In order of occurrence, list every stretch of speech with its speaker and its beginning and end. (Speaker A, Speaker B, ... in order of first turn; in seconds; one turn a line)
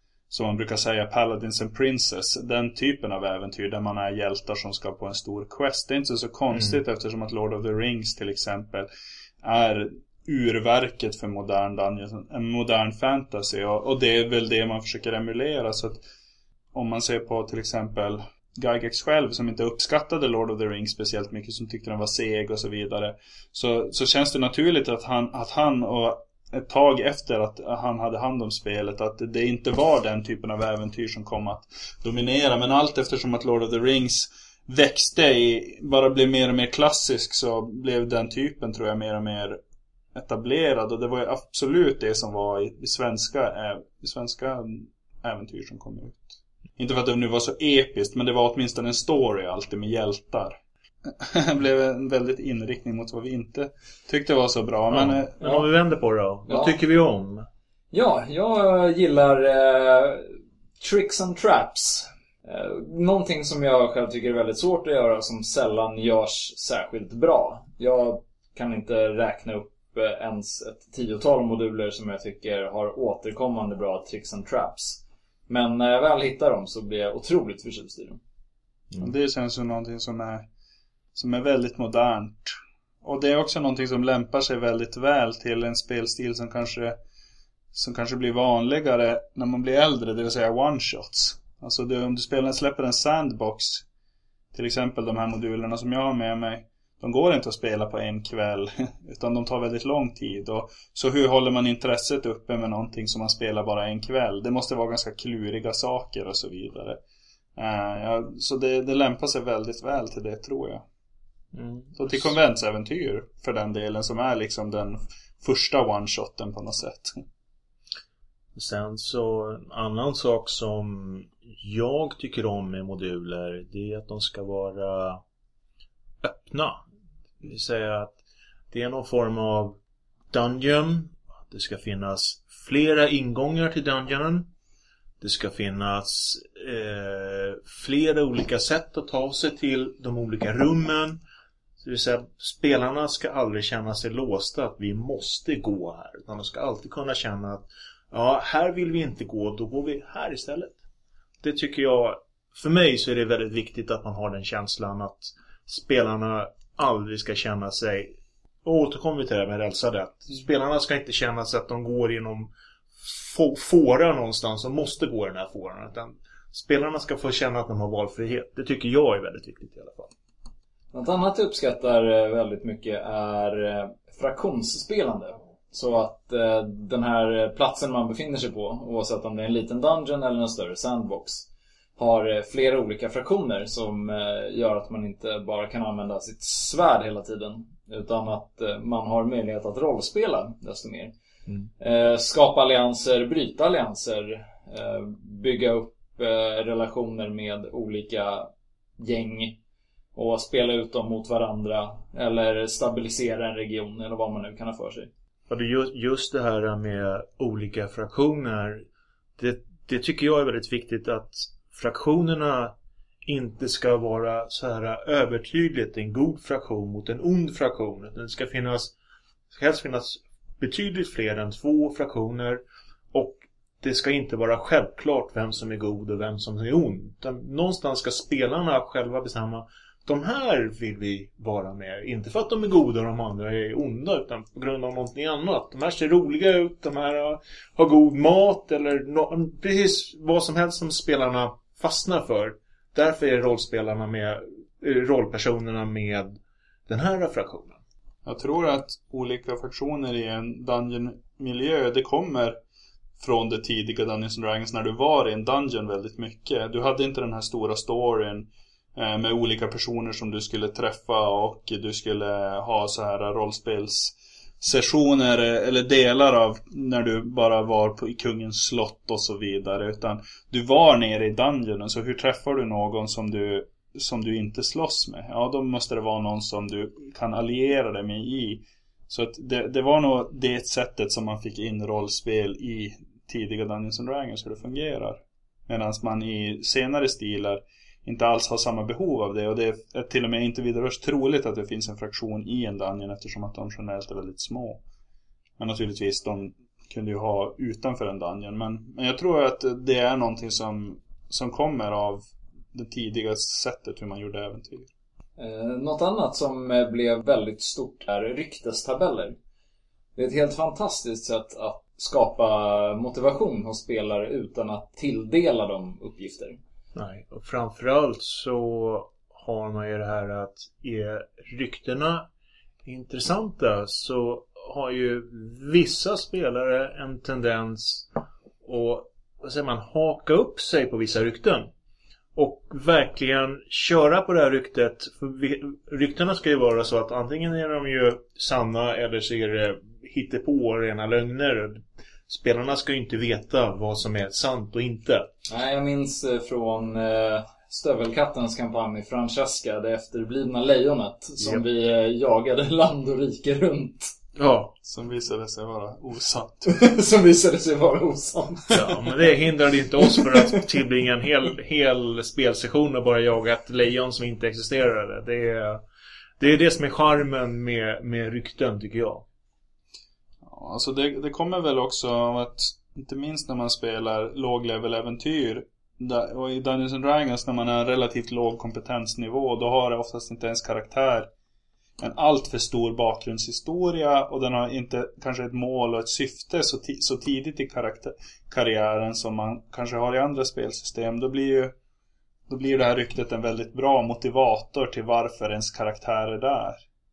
Speaker A: 0.3-8.9
Speaker B: 6.5-6.8
Speaker A: 9.4-16.0
Speaker A: 16.7-39.6
Speaker A: 40.1-55.6
Speaker B: 54.9-57.5
Speaker C: 56.5-56.7
Speaker C: 57.9-78.2
Speaker A: 79.0-80.5
Speaker A: 81.1-87.0
Speaker A: 87.7-93.8
Speaker A: 94.5-107.0
Speaker A: 107.5-110.8
Speaker B: 111.5-112.3
Speaker A: 112.0-117.2
Speaker B: 118.5-125.2
Speaker B: 126.2-126.8
Speaker B: 127.4-128.2
Speaker B: 128.7-129.8
Speaker B: 130.3-134.5
Speaker B: 135.2-141.2
Speaker B: 141.8-150.8
Speaker B: 151.4-170.1
Speaker C: 170.9-191.1
Speaker C: 191.8-199.6
Speaker C: 200.1-205.1
Speaker B: 205.5-208.8
Speaker B: 209.4-212.7
Speaker B: 213.2-218.9
Speaker B: 219.5-222.6
Speaker B: 223.1-247.8
Speaker A: 248.2-252.6
Speaker A: 253.2-294.8
Speaker A: 295.6-304.9
Speaker C: 305.4-309.4
Speaker C: 310.1-316.6
Speaker B: 316.9-322.3
Speaker B: 322.8-328.1
Speaker B: 328.6-331.7
Speaker B: 332.4-345.3
Speaker C: 345.5-354.1
Speaker B: 351.4-351.6
Speaker B: 354.4-354.7
Speaker A: 354.8-356.7
Speaker C: 356.6-358.8
Speaker B: 358.7-365.8
Speaker C: 360.1-360.4
Speaker B: 366.4-369.2
Speaker A: 370.4-381.3
Speaker A: 382.0-391.7
Speaker A: 392.5-396.8